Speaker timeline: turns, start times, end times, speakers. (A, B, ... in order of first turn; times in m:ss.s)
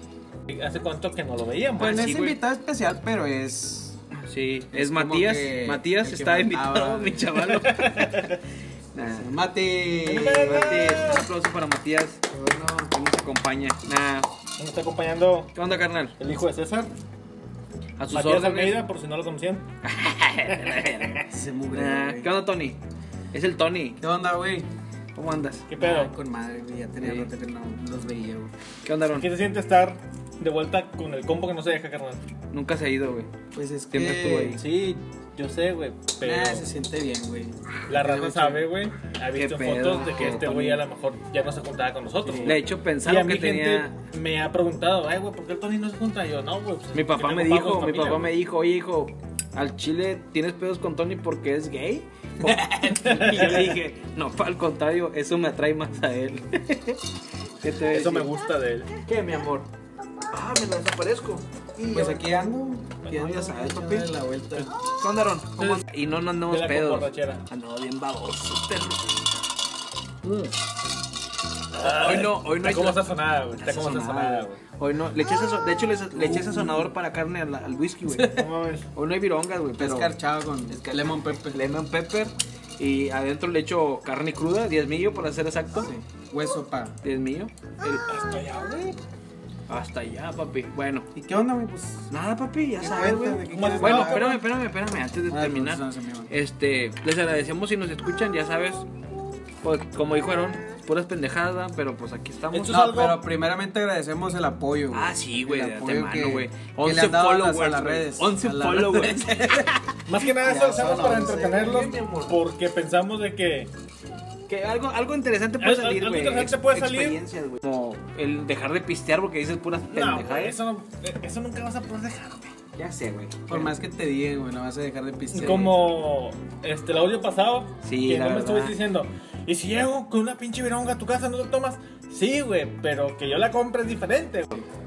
0:00.5-0:02.1 A
0:01.8-0:04.0 B
0:02.0-0:02.4 C
0:04.1-0:08.3 C
0:04.7-0:07.6 B
0:07.4-0:08.3 A
0:08.9-0:09.3 C
0:09.2-0:10.6 B
0:10.0-0:11.3 A
0:10.4-0:14.3 C
0:14.6-0:15.5 A
0:15.5-0:16.2 C
0:16.2-0:16.9 A
0:18.0-0:18.8 C
0:18.1-0:19.6 A
0:19.8-0:22.8 C
0:21.3-0:22.3 B
0:23.3-0:24.0 C
0:24.0-0:24.7 B
0:25.1-0:25.7 C
0:25.7-0:26.1 A
0:25.8-0:28.5 B
0:27.0-0:27.3 C
0:28.8-0:29.3 C
0:29.2-0:32.2 A
0:32.5-0:33.3 C
0:33.5-0:34.6 B
0:33.9-0:34.6 C
0:34.6-0:36.6 A
0:36.2-0:38.6 B
0:37.9-0:48.3 A
0:39.3-0:40.8 C
0:42.2-0:42.6 B
0:42.4-0:44.0 C
0:46.9-0:57.0 C
0:52.9-0:53.7 A
0:57.6-0:58.3 C
0:57.9-0:58.9 A
0:59.0-0:59.7 C
1:00.3-1:02.2 C
1:01.9-1:04.7 B
1:03.1-1:09.0 C
1:05.6-1:05.8 A
1:06.4-1:07.4 A
1:11.8-1:14.6 A
1:11.8-1:18.3 C
1:16.1-1:16.8 B
1:18.1-1:18.5 B
1:18.3-1:18.9 A
1:18.9-1:20.1 C
1:19.8-1:21.6 B
1:20.7-1:25.9 C
1:25.8-1:27.0 B
1:27.0-1:28.0 C
1:27.9-1:29.0 A
1:29.7-1:31.1 C
1:31.1-1:32.1 B
1:32.1-1:38.8 C
1:32.8-1:34.4 B
1:33.5-1:34.4 A
1:35.3-1:36.3 B
1:39.6-1:42.7 C
1:42.5-1:43.2 A
1:42.7-1:49.6 B
1:44.9-1:49.9 C
1:50.1-1:53.7 A
1:50.4-1:51.8 B
1:51.8-1:52.4 C
1:54.5-2:00.6 C
1:55.6-1:57.2 A
1:59.9-2:02.5 A
2:02.8-2:03.7 C
2:03.5-2:05.8 B
2:05.3-2:14.6 A
2:07.8-2:08.8 C